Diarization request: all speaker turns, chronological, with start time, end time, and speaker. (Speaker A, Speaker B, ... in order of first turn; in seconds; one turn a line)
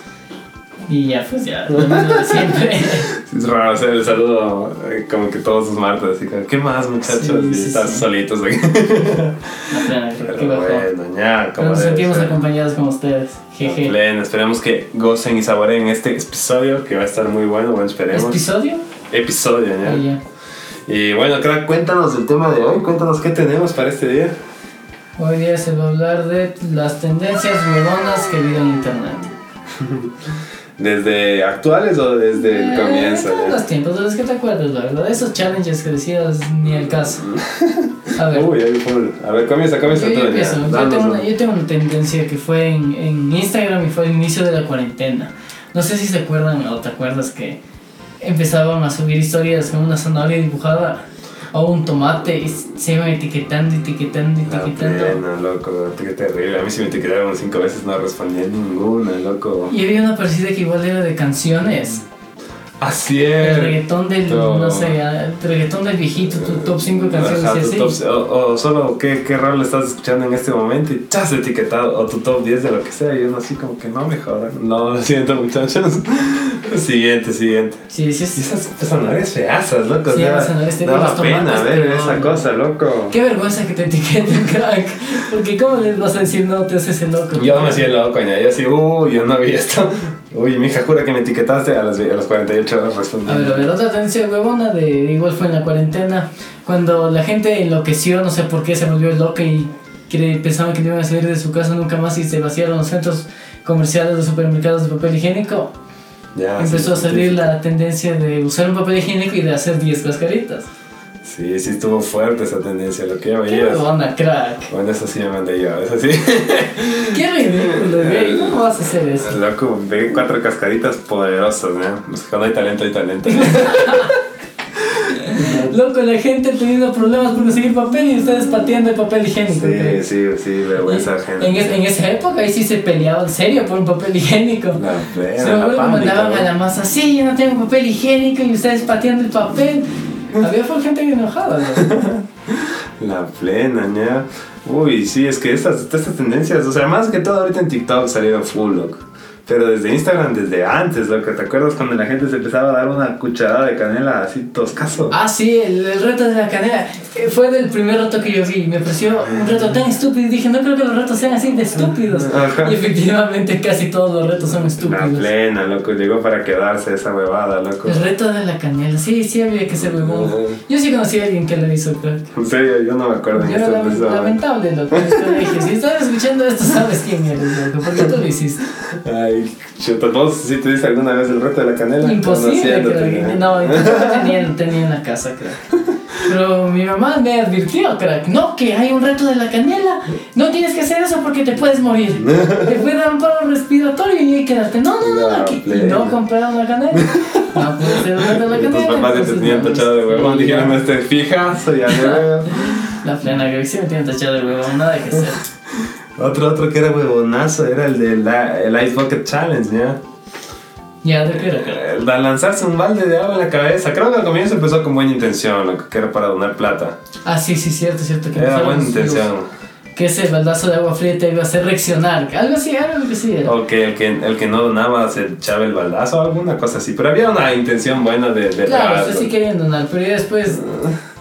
Speaker A: 0.9-3.1
Speaker B: 1.7-9.5
Speaker A: 7.0-8.1
Speaker A: 9.7-10.9
Speaker B: 10.3-12.4
Speaker A: 11.6-13.9
Speaker B: 13.6-18.4
Speaker A: 18.1-18.9
Speaker B: 19.1-20.0
Speaker A: 19.8-20.2
Speaker B: 20.9-24.3
Speaker A: 25.2-29.3
Speaker B: 29.8-30.1
Speaker B: 30.8-33.6
Speaker A: 32.4-37.3
Speaker B: 37.0-41.2
Speaker A: 38.1-38.5
Speaker A: 39.9-47.6
Speaker A: 48.2-51.0
Speaker A: 51.5-55.2
Speaker B: 54.5-59.7
Speaker A: 59.7-62.0
Speaker B: 62.8-65.0
Speaker A: 63.4-68.0
Speaker B: 66.4-77.8
Speaker A: 77.9-78.4
Speaker B: 78.4-83.2
Speaker A: 80.1-82.5
Speaker A: 83.1-87.9
Speaker B: 87.3-93.7
Speaker A: 93.2-105.7
Speaker B: 106.3-107.5
Speaker A: 106.6-110.7
Speaker B: 111.2-113.8
Speaker A: 113.5-114.7
Speaker B: 114.7-118.7
Speaker A: 117.1-119.4
Speaker B: 119.2-124.1
Speaker A: 123.2-124.2
Speaker B: 125.0-125.7
Speaker A: 125.2-130.0
Speaker B: 129.5-131.8
Speaker A: 130.8-134.9
Speaker B: 134.7-136.5
Speaker A: 135.4-141.9
Speaker B: 141.7-155.2
Speaker A: 155.1-165.3
Speaker B: 161.8-162.8
Speaker B: 164.8-168.1
Speaker A: 167.8-172.3
Speaker B: 169.8-170.6
Speaker B: 172.3-174.4
Speaker A: 173.3-178.7
Speaker B: 174.9-175.7
Speaker B: 179.0-184.4
Speaker A: 182.0-185.7
Speaker A: 186.2-200.8
Speaker B: 192.2-192.8
Speaker B: 195.0-196.2
Speaker B: 196.9-202.8
Speaker A: 201.9-205.4
Speaker B: 205.1-210.0
Speaker A: 211.0-211.8
Speaker B: 211.3-217.0
Speaker A: 217.2-219.3
Speaker B: 218.3-219.5
Speaker A: 219.9-223.5
Speaker B: 223.4-229.3
Speaker A: 228.7-230.7
Speaker B: 230.6-231.0